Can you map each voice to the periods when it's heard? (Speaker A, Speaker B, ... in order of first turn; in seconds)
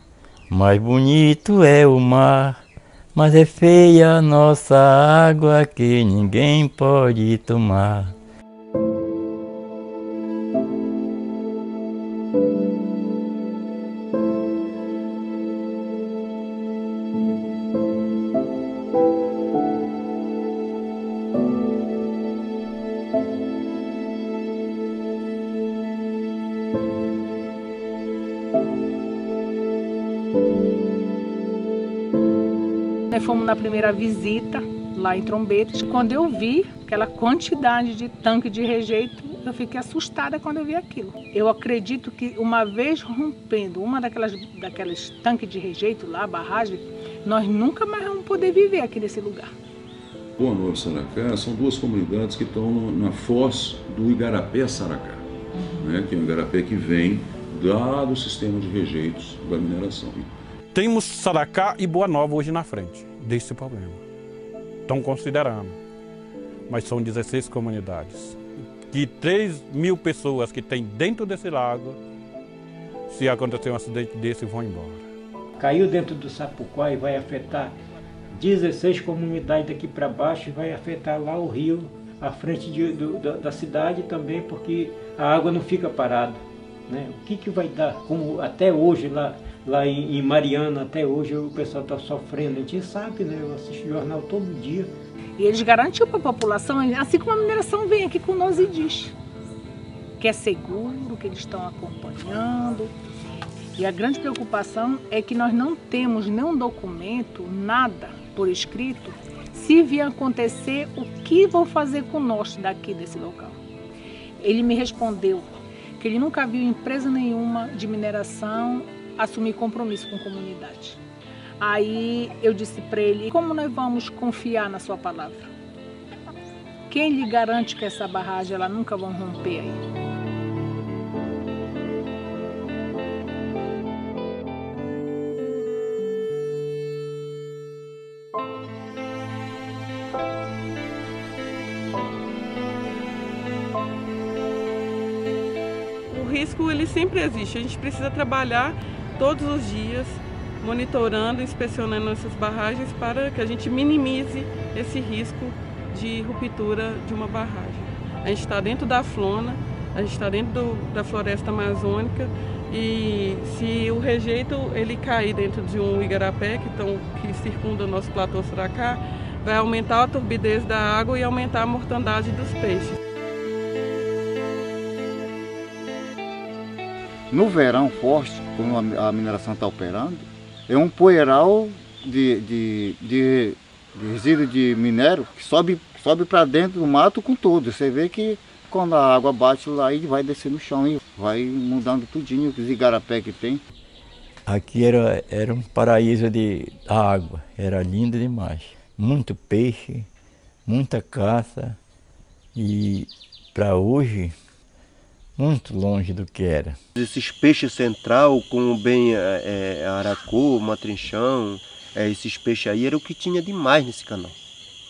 Speaker A: 0.5-2.6, 3.1-8.2, 194.5-200.1, 200.7-201.8, 202.6-204.3, 205.4-206.8
Speaker B: 33.1-49.5, 95.4-99.1, 100.2-102.9, 103.8-113.6, 114.4-121.0, 121.6-125.5, 126.9-129.8
Speaker C: 50.4-60.3
Speaker D: 60.7-64.0, 64.9-65.8, 66.7-68.4, 68.9-72.0, 73.1-75.0
Speaker E: 75.6-77.7, 78.3-94.9
Speaker F: 146.1-173.0
Speaker G: 177.3-193.6
Speaker H: 206.9-214.3